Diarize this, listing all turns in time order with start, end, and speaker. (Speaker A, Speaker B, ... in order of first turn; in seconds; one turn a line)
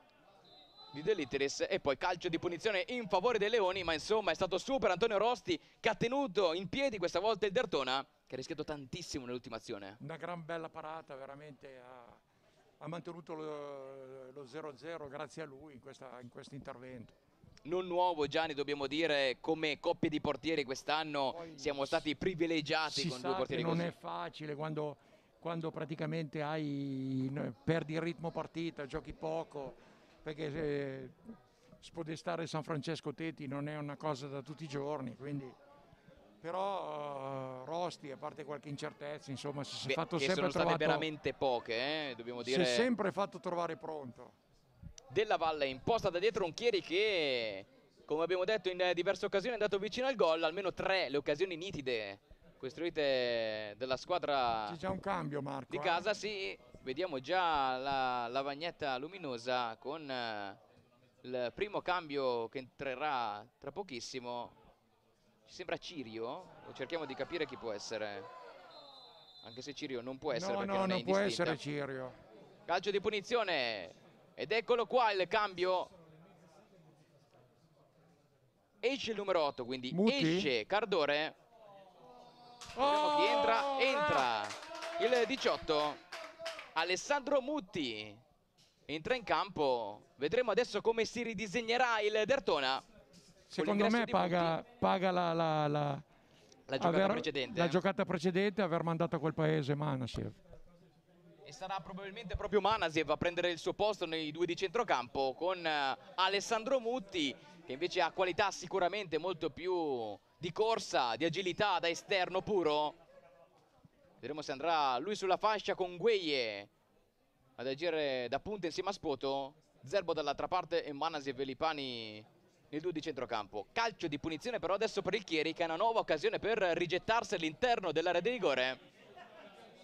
Speaker A: 0.9-10.0
Speaker B: 10.0-12.2
Speaker B: 12.8-17.1
Speaker A: 17.6-23.9
Speaker B: 21.3-22.1
Speaker B: 22.9-31.2
Speaker B: 31.8-35.6
Speaker B: 36.4-41.1
Speaker A: 39.9-42.9
Speaker B: 42.4-44.4
Speaker A: 45.1-54.8
Speaker B: 54.6-56.1
Speaker A: 55.7-60.6
Speaker A: 61.2-64.5
Speaker A: 65.5-68.3
Speaker A: 69.4-71.6
Speaker B: 70.3-72.2
Speaker A: 72.7-75.9
Speaker A: 78.8-81.3
Speaker B: 79.9-80.5
Speaker B: 82.7-84.3
Speaker A: 82.8-86.0
Speaker A: 86.7-88.2
Speaker A: 88.9-92.8
Speaker B: 93.5-96.0
Speaker A: 93.6-94.6
Speaker A: 96.7-97.8
Speaker B: 96.8-100.4
Speaker A: 101.4-113.0
Speaker A: 114.2-116.7
Speaker A: 117.6-128.8